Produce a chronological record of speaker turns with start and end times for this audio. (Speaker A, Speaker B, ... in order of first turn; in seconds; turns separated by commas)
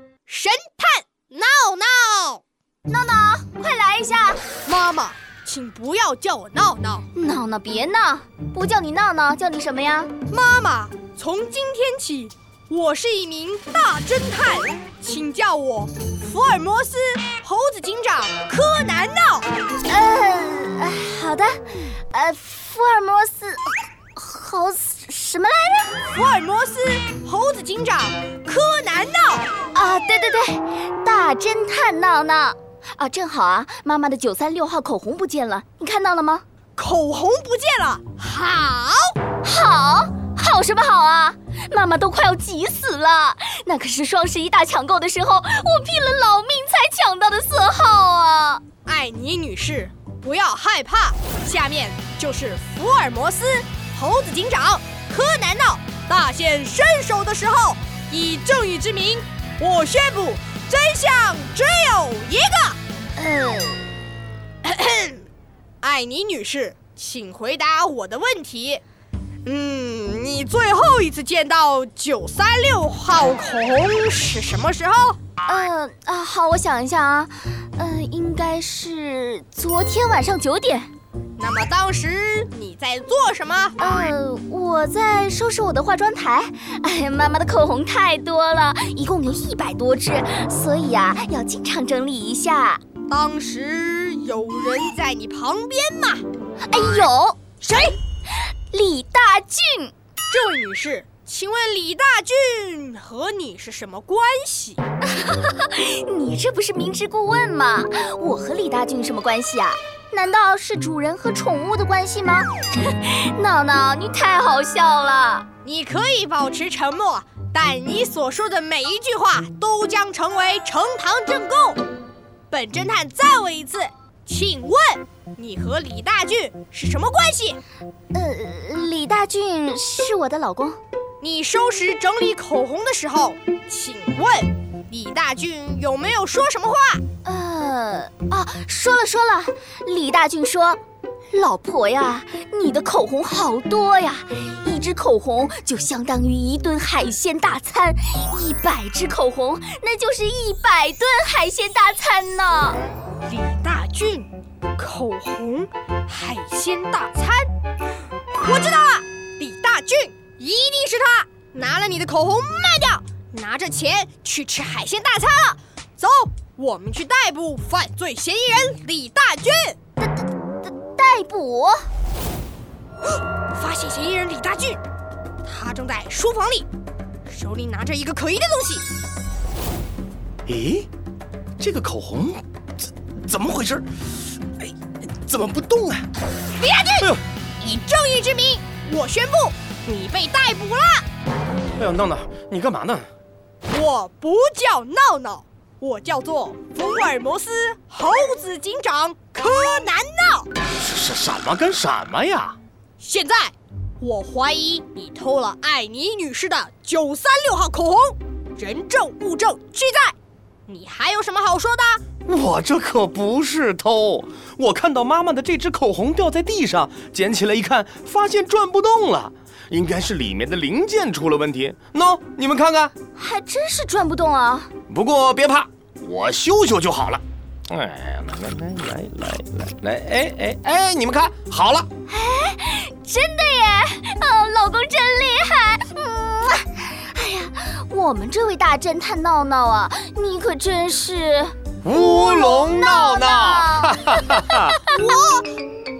Speaker A: 0.3-2.4, Speaker B: 2.9-4.5, Speaker A: 4.7-7.0, Speaker B: 7.1-10.1, Speaker A: 10.3-19.5, Speaker B: 19.9-26.0, Speaker A: 26.1-29.5, Speaker B: 29.7-36.4, Speaker A: 36.8-39.2, Speaker B: 39.4-48.6, Speaker A: 48.9-62.8, Speaker B: 63.2-63.9, Speaker A: 64.6-65.2, Speaker A: 65.8-68.8, Speaker A: 69.5-75.2, Speaker B: 75.5-80.9, Speaker A: 81.4-83.8, Speaker B: 83.8-92.8, Speaker A: 93.1-96.2, Speaker B: 96.7-97.4, Speaker A: 97.6-98.0, Speaker B: 98.7-99.9, Speaker A: 100.3-104.8, Speaker B: 105.1-115.5, Speaker A: 115.6-121.8, Speaker A: 122.5-127.6, Speaker B: 128.1-130.8, Speaker A: 131.2-137.0, Speaker B: 137.2-140.8, Speaker B: 141.3-152.8, Speaker A: 153.3-157.5, Speaker A: 158.4-169.8, Speaker B: 170.0-171.8, Speaker A: 173.5-174.8, Speaker A: 175.4-176.7, Speaker A: 177.3-178.8, Speaker C: 180.5-180.9, Speaker C: 181.6-182.4, Speaker C: 183.2-184.1, Speaker C: 185.2-186.1, Speaker A: 186.6-191.1, Speaker C: 191.8-193.1, Speaker A: 193.7-200.5, Speaker C: 200.8-202.6, Speaker A: 203.0-210.1, Speaker A: 210.7-212.0, Speaker C: 212.3-222.9, Speaker B: 223.2-224.7, Speaker C: 224.9-231.9, Speaker B: 232.1-244.9, Speaker C: 241.8-244.8, Speaker A: 244.8-245.5